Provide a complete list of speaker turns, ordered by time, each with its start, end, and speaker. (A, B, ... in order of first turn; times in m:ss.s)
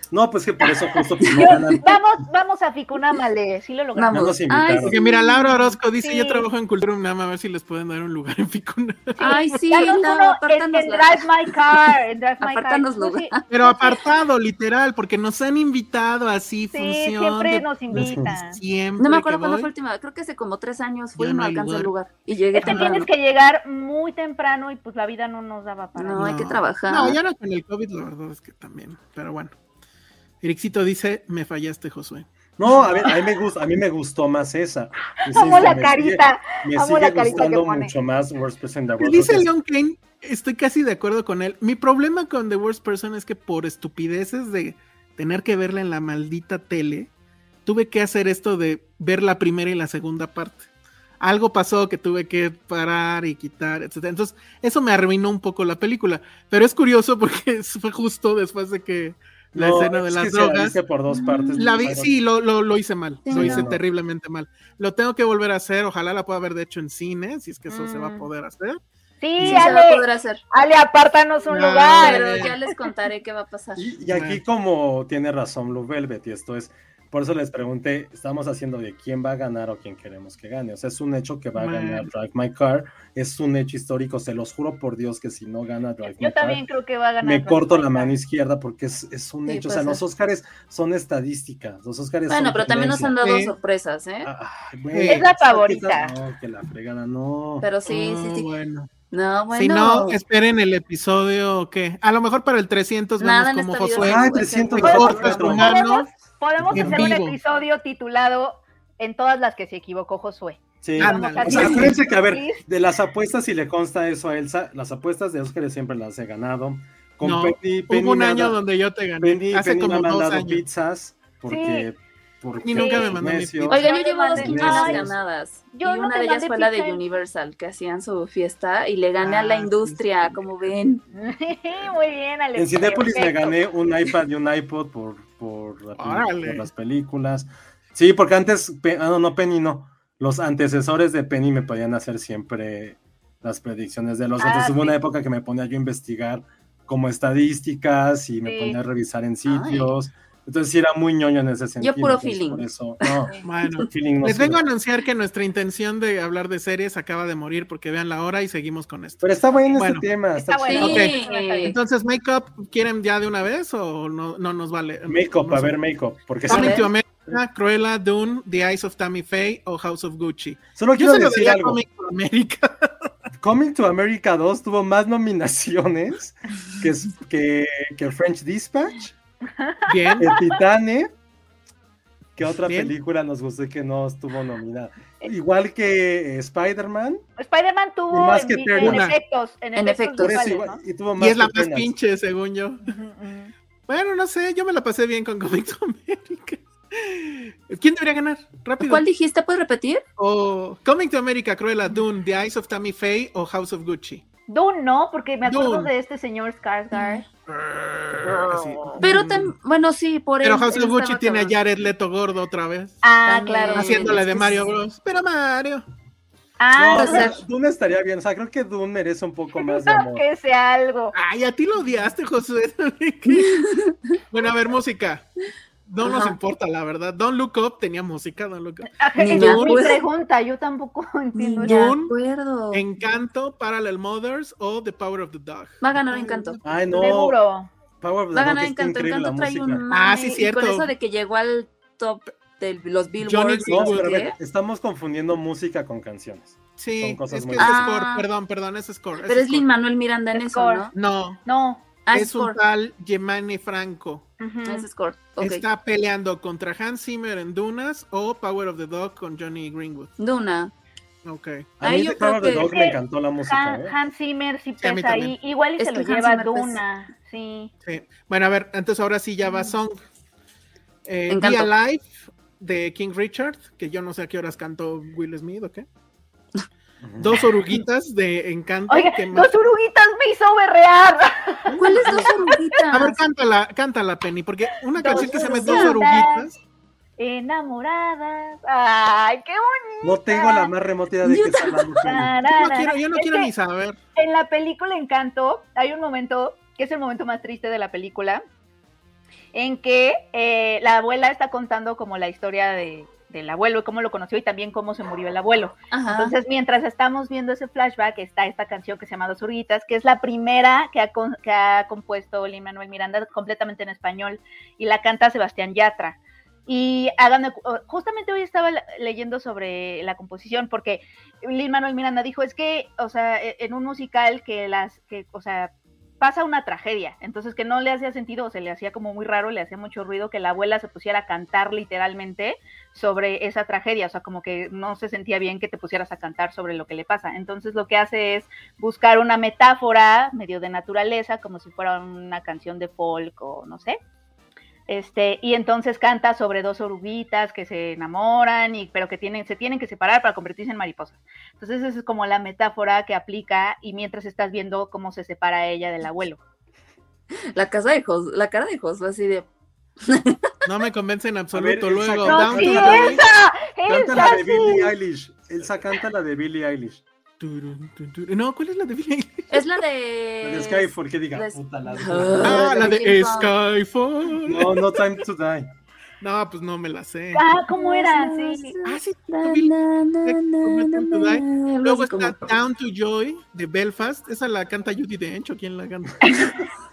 0:00.1-0:01.9 A
0:01.2-0:01.8 B
0:01.3-0:04.3 C
0:03.9-0:05.1 B
0:04.1-0:05.0 A
0:04.8-0:09.7 D
0:05.3-0:06.4 C
0:09.2-0:13.5 B
0:09.2-0:14.0 C
0:13.5-0:19.7 D
0:16.7-0:18.6 C
0:17.9-0:18.3 A
0:19.0-0:23.1 B
0:21.2-0:21.9 D
0:22.6-0:22.9 D
0:22.6-0:26.4 C
0:26.0-0:27.2 B
0:26.2-0:29.5 D
0:30.4-0:33.1 D
0:32.6-0:39.5 A
0:35.3-0:37.9 C
0:39.0-0:47.1 D
0:47.6-0:50.7 D
0:51.2-1:00.8 D
0:59.5-1:02.1 A
1:01.1-1:01.9 B
1:01.5-1:08.8 D
1:03.2-1:03.7 B
1:03.3-1:03.8 A
1:07.7-1:08.3 C
1:09.2-1:12.6 C
1:09.4-1:09.7 D
1:09.4-1:10.4 B
1:11.5-1:12.5 D
1:12.0-1:13.8 B
1:13.8-1:26.6 A
1:14.1-1:14.4 D
1:21.6-1:22.1 D
1:26.0-1:28.1 C
1:27.2-1:33.1 A
1:29.5-1:30.0 B
1:32.3-1:34.3 B
1:33.2-1:33.5 D
1:34.2-1:37.7 A
1:34.9-1:35.2 D
1:35.1-1:36.1 C
1:37.6-1:38.5 B
1:37.9-1:38.9 D
1:39.1-1:40.2 B
1:39.5-1:46.1 D
1:43.2-1:45.5 B
1:44.0-1:45.8 A
1:44.8-1:52.6 C
1:46.6-1:47.2 A
1:46.7-1:47.4 D
1:50.8-1:58.6 A
1:51.0-1:51.9 D
1:57.2-2:00.6 D
1:59.2-2:03.8 A
2:01.5-2:01.9 C
2:02.6-2:03.8 D
2:02.7-2:03.2 C
2:03.7-2:05.1 C
2:03.7-2:11.0 B
2:04.3-2:05.1 A
2:05.7-2:07.0 C
2:09.2-2:10.4 D
2:11.1-2:13.6 C
2:12.5-2:33.3 A
2:16.0-2:16.7 D
2:24.4-2:25.0 C
2:28.4-2:28.8 C
2:29.4-2:29.9 B
2:31.8-2:33.8 B
2:33.4-2:40.0 D
2:33.9-2:34.6 A
2:39.2-2:41.1 A
2:40.3-2:41.7 C
2:40.7-2:41.8 B
2:40.7-2:45.8 D
2:45.1-2:47.3 A
2:46.4-2:53.1 D
2:46.5-2:46.9 B
2:50.8-2:51.8 A
2:53.4-2:59.1 A
2:59.6-3:00.4 C
2:59.9-3:00.3 D
3:00.2-3:01.1 A
3:02.4-3:07.2 A
3:02.6-3:02.9 D
3:07.4-3:10.8 C
3:08.1-3:09.1 A
3:08.8-3:09.2 D
3:09.7-3:10.4 B
3:10.2-3:11.9 A
3:11.2-3:12.8 D
3:12.9-3:13.5 C
3:13.9-3:19.0 D
3:18.8-3:20.0 B
3:20.2-3:24.2 D
3:24.5-3:27.3 C
3:25.4-3:25.9 D
3:27.5-3:29.5 D
3:29.0-3:31.5 B
3:30.4-3:33.0 D
3:33.0-3:34.3 C
3:33.2-3:34.6 B
3:33.7-3:35.8 D
3:36.6-3:37.3 C
3:36.7-3:40.2 A
3:36.9-3:37.4 B
3:39.6-3:41.1 C
3:41.1-3:43.6 D
3:43.3-3:44.2 B
3:44.3-3:45.2 D
3:45.9-3:49.9 D
3:46.0-3:46.4 B
3:49.0-3:51.9 C
3:49.2-3:50.0 B
3:51.4-3:52.8 B
3:51.6-3:52.1 D
3:52.7-3:56.8 D
3:55.8-3:56.6 B
3:56.6-3:57.4 A
3:56.9-3:57.7 C
3:58.0-3:59.8 A
3:58.3-4:04.4 B
3:59.9-4:00.9 D
4:03.2-4:04.2 D
4:03.7-4:07.9 A
4:06.8-4:09.6 D
4:07.6-4:08.3 B
4:09.2-4:10.9 B
4:10.3-4:10.9 C
4:10.9-4:11.4 D
4:11.4-4:11.8 C
4:12.0-4:12.6 B
4:12.1-4:14.2 D
4:14.4-4:14.9 C
4:14.6-4:15.6 B
4:15.4-4:20.1 D
4:20.2-4:20.7 B
4:21.2-4:21.7 D
4:21.8-4:23.9 A
4:21.8-4:22.7 B
4:22.6-4:27.7 C
4:24.8-4:25.3 D
4:25.8-4:26.8 B
4:27.8-4:30.0 D
4:31.0-4:35.8 D
4:31.3-4:31.7 B
4:37.0-4:37.4 A
4:37.2-4:39.5 D
4:38.9-4:43.0 C
4:41.8-4:43.2 B
4:41.9-4:42.3 D
4:42.9-4:46.6 D
4:45.0-4:46.5 C
4:45.0-4:46.0 B
4:47.2-4:50.7 C
4:50.0-4:52.3 A
4:51.2-4:52.2 B
4:52.0-4:53.5 C
4:52.4-4:54.0 D
4:54.2-4:58.4 C
4:59.5-5:44.0 C
5:05.9-5:06.4 B
5:44.9-5:56.4 C
5:57.5-5:59.4 B
6:00.0-6:00.5 B
6:00.6-6:03.2 D
6:01.5-6:03.2 A
6:02.2-6:04.9 C
6:03.8-6:07.0 A
6:07.4-6:09.5 D
6:09.5-6:13.5 B
6:10.4-6:12.7 A
6:12.4-6:14.8 D
6:14.4-6:15.7 A
6:16.2-6:17.4 D
6:17.3-6:18.8 C
6:17.7-6:22.5 B
6:18.8-6:19.7 D
6:20.2-6:26.2 D
6:26.2-6:26.5 C